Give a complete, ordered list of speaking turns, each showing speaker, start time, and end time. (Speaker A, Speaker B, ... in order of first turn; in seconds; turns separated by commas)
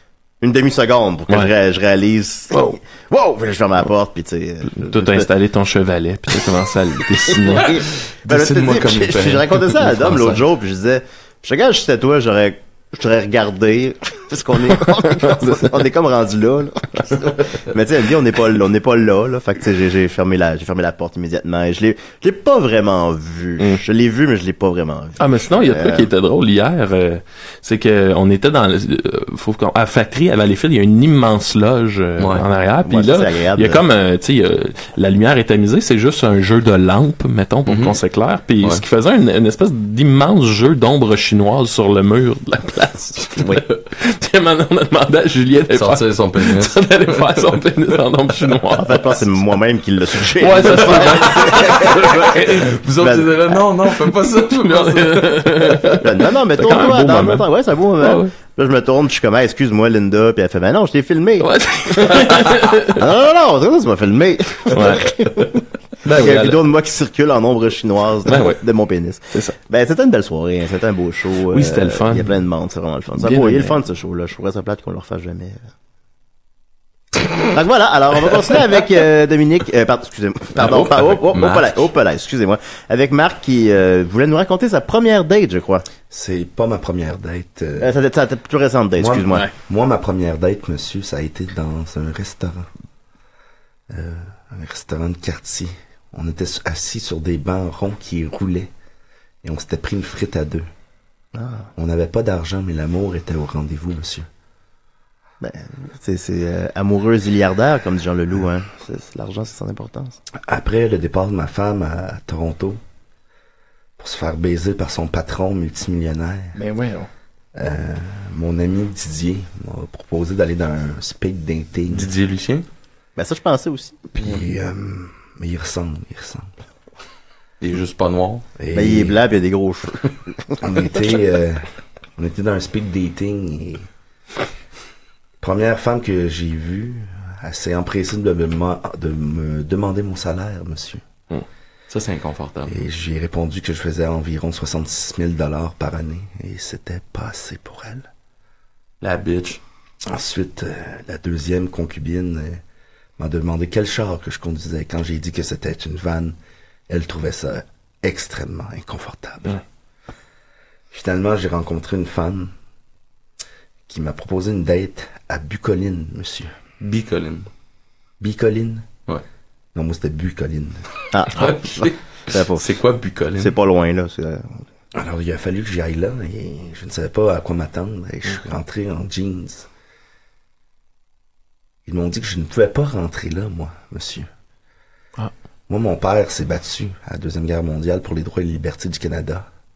Speaker A: 0.4-5.3, Speaker B: 4.7-7.8, Speaker A: 7.4-26.1, Speaker C: 8.2-9.6, Speaker B: 10.0-10.4, Speaker B: 25.2-49.2, Speaker C: 32.2-32.5, Speaker A: 32.8-33.8, Speaker C: 37.7-38.0, Speaker C: 45.7-47.6, Speaker A: 48.8-52.4, Speaker B: 50.3-52.8, Speaker C: 50.6-55.8, Speaker A: 53.0-53.4, Speaker B: 54.5-58.3, Speaker A: 56.0-61.5, Speaker B: 61.4-63.0, Speaker A: 62.9-65.6, Speaker B: 64.7-66.5, Speaker A: 66.1-75.6, Speaker B: 68.3-68.6, Speaker B: 71.5-72.3, Speaker B: 73.2-73.8, Speaker A: 77.5-85.8, Speaker C: 80.6-81.8, Speaker D: 86.1-87.9, Speaker A: 87.8-89.5, Speaker D: 89.0-92.7, Speaker D: 93.9-98.7, Speaker D: 99.4-100.7, Speaker A: 101.3-101.7, Speaker D: 101.8-104.3, Speaker A: 105.4-110.2, Speaker D: 110.5-112.8, Speaker D: 114.0-116.6, Speaker B: 116.6-117.1, Speaker D: 117.5-122.1, Speaker C: 121.9-122.7, Speaker A: 123.2-124.0, Speaker D: 124.2-126.5, Speaker C: 127.6-128.4, Speaker D: 128.6-129.2, Speaker A: 128.8-130.6, Speaker D: 130.6-131.7, Speaker D: 132.2-133.9, Speaker D: 135.4-141.0, Speaker C: 141.9-142.8, Speaker D: 142.7-148.1, Speaker C: 149.0-149.6, Speaker D: 150.1-152.6, Speaker D: 153.2-156.4, Speaker D: 156.9-159.6, Speaker D: 160.9-162.5, Speaker D: 163.9-166.5, Speaker C: 166.8-167.5, Speaker D: 168.2-168.9, Speaker D: 169.8-170.8, Speaker A: 171.1-172.7, Speaker C: 171.4-173.5, Speaker A: 173.4-174.6, Speaker D: 174.9-179.7, Speaker D: 181.9-184.3, Speaker D: 185.7-189.5